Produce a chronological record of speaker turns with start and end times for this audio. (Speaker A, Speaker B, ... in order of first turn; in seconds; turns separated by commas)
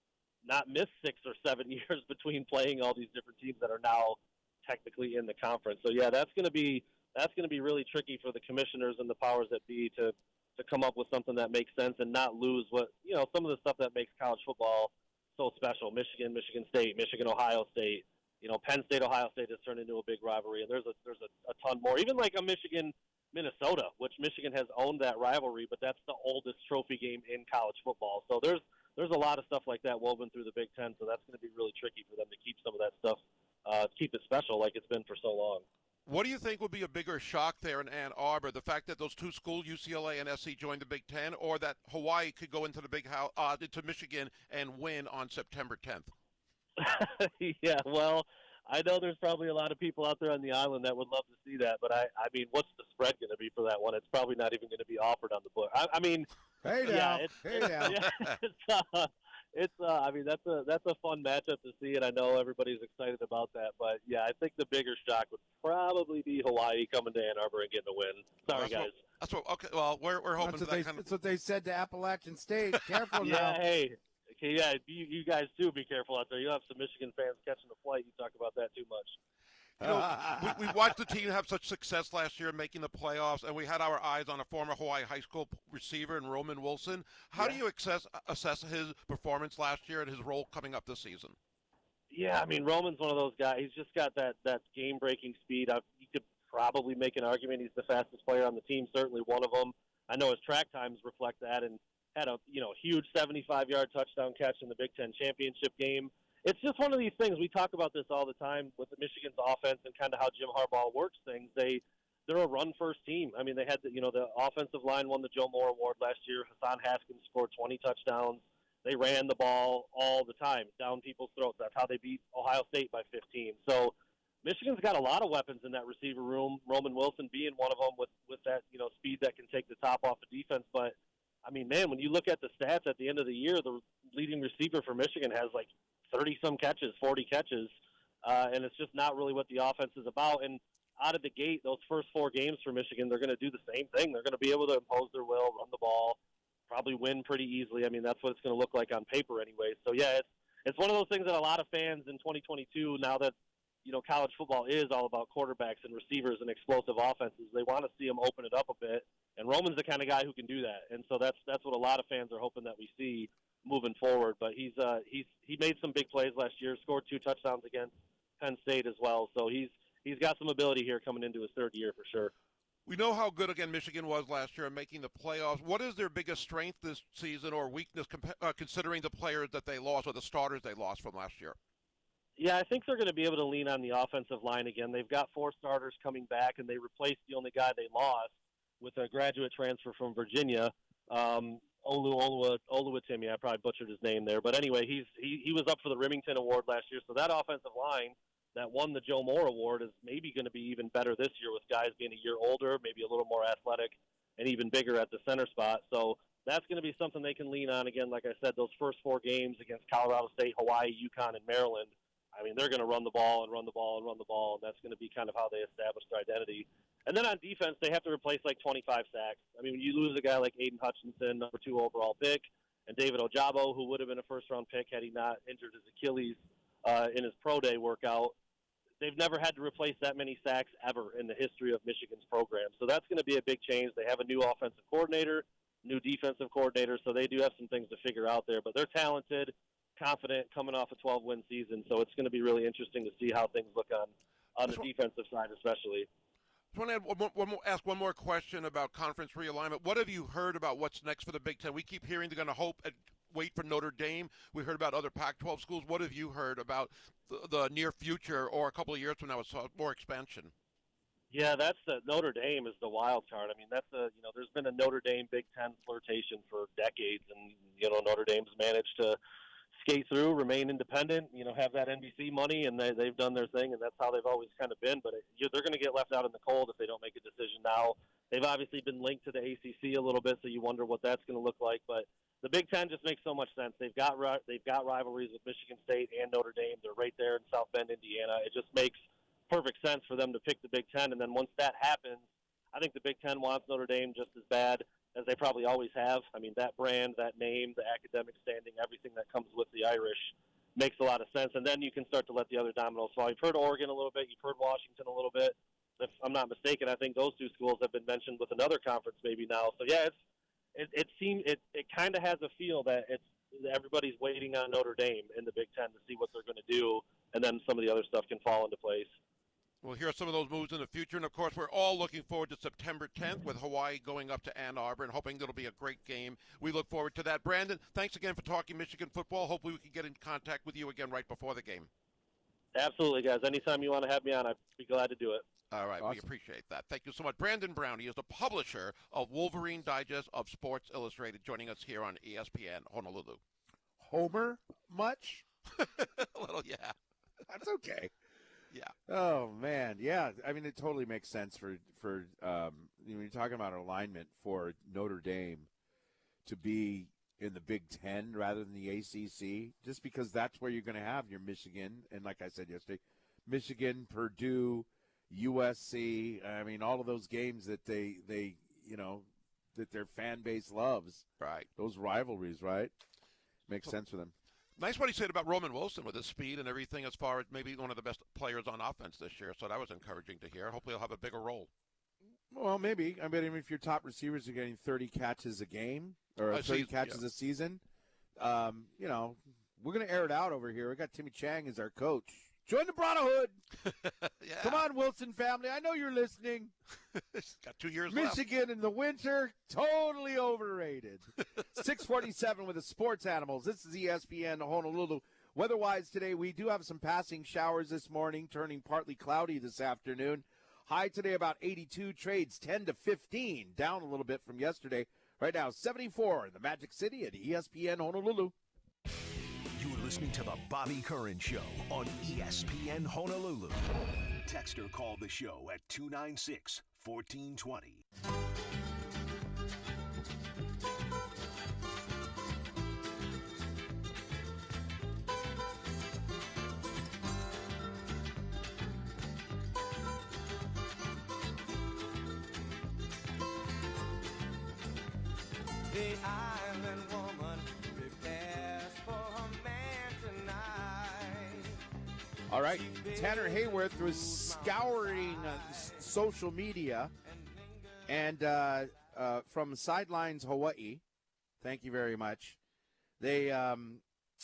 Speaker A: 0.4-35.6, Speaker B: 36.0-46.1, Speaker A: 46.8-56.3, Speaker C: 56.6-58.0, Speaker A: 56.8-69.0, Speaker B: 57.9-58.3, Speaker B: 68.5-71.0, Speaker C: 70.4-73.6, Speaker A: 73.2-79.2, Speaker C: 79.8-80.8, Speaker B: 79.8-91.3, Speaker A: 92.1-137.7, Speaker A: 138.2-153.3, Speaker A: 153.8-172.3, Speaker B: 172.9-181.6, Speaker A: 182.4-228.3, Speaker A: 229.0-246.1, Speaker B: 246.7-260.5, Speaker A: 261.3-269.2, Speaker A: 269.8-310.1, Speaker A: 310.7-319.1, Speaker B: 319.8-331.9, Speaker A: 332.7-335.4, Speaker B: 335.7-343.4, Speaker C: 336.0-336.2, Speaker C: 344.0-345.4, Speaker B: 345.7-346.9, Speaker C: 347.5-348.1, Speaker C: 349.1-355.7, Speaker C: 356.4-371.2, Speaker B: 371.4-371.7, Speaker C: 371.8-372.9, Speaker C: 373.7-374.3, Speaker B: 374.8-381.7, Speaker C: 382.5-387.8, Speaker B: 386.5-387.2, Speaker C: 388.4-393.6, Speaker B: 393.8-394.8, Speaker C: 394.6-396.7, Speaker B: 397.3-398.4, Speaker C: 398.1-418.5, Speaker D: 419.8-423.9, Speaker D: 424.4-428.0, Speaker E: 445.9-451.7, Speaker C: 452.5-457.1, Speaker E: 452.6-456.1, Speaker E: 457.2-458.3, Speaker C: 458.1-461.0, Speaker C: 461.6-462.6, Speaker C: 463.2-464.0